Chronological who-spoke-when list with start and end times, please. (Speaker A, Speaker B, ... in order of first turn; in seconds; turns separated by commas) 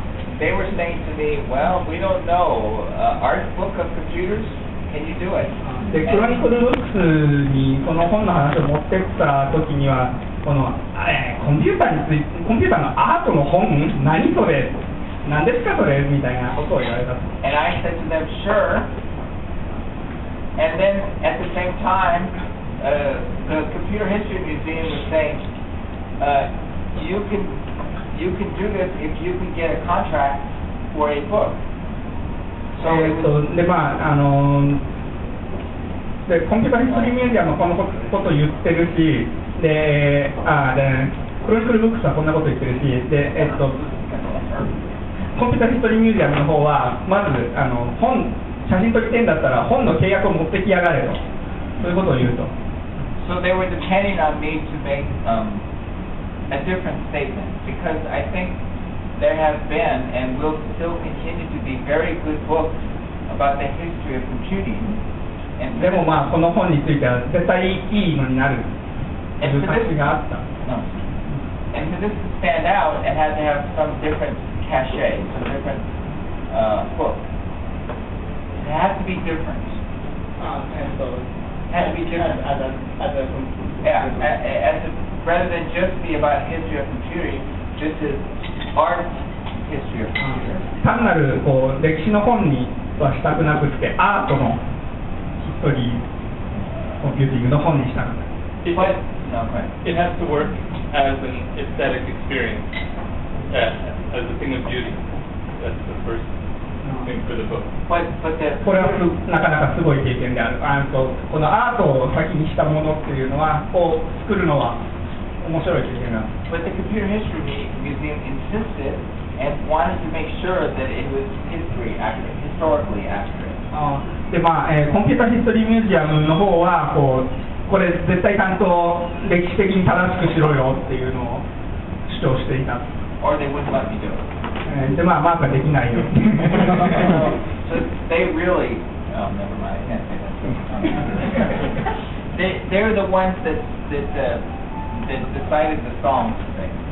Speaker A: 0.3-5.5, Speaker B: 5.6-17.4, Speaker A: 6.0-6.3, Speaker A: 17.4-18.9, Speaker A: 20.6-25.4, Speaker A: 26.2-27.6, Speaker A: 28.1-31.6, Speaker A: 32.8-33.4, Speaker B: 32.8-34.8, Speaker B: 36.3-43.8, Speaker A: 43.6-44.7, Speaker B: 45.4-51.2, Speaker B: 51.8-52.5, Speaker A: 53.2-55.6, Speaker A: 56.5-58.6, Speaker A: 59.2-65.0, Speaker A: 65.6-66.2, Speaker B: 65.8-68.7, Speaker A: 69.4-70.0, Speaker B: 69.4-70.5, Speaker A: 70.6-71.0, Speaker A: 71.7-75.8, Speaker A: 76.5-77.2, Speaker A: 78.6-79.8, Speaker B: 80.4-84.3, Speaker A: 81.7-82.4, Speaker A: 83.8-90.5, Speaker B: 90.2-94.6, Speaker B: 95.4-96.0, Speaker B: 97.0-98.3, Speaker C: 98.7-99.0, Speaker A: 98.7-99.7, Speaker C: 99.8-102.7, Speaker C: 103.5-105.0, Speaker C: 105.6-106.3, Speaker B: 106.8-107.1, Speaker C: 107.0-107.7, Speaker A: 107.9-109.1, Speaker B: 108.6-114.8, Speaker B: 115.4-116.3, Speaker A: 116.5-123.6, Speaker B: 123.7-131.5, Speaker B: 132.1-132.9, Speaker A: 133.2-134.2, Speaker B: 134.7-137.2, Speaker A: 136.7-141.7, Speaker A: 142.3-146.8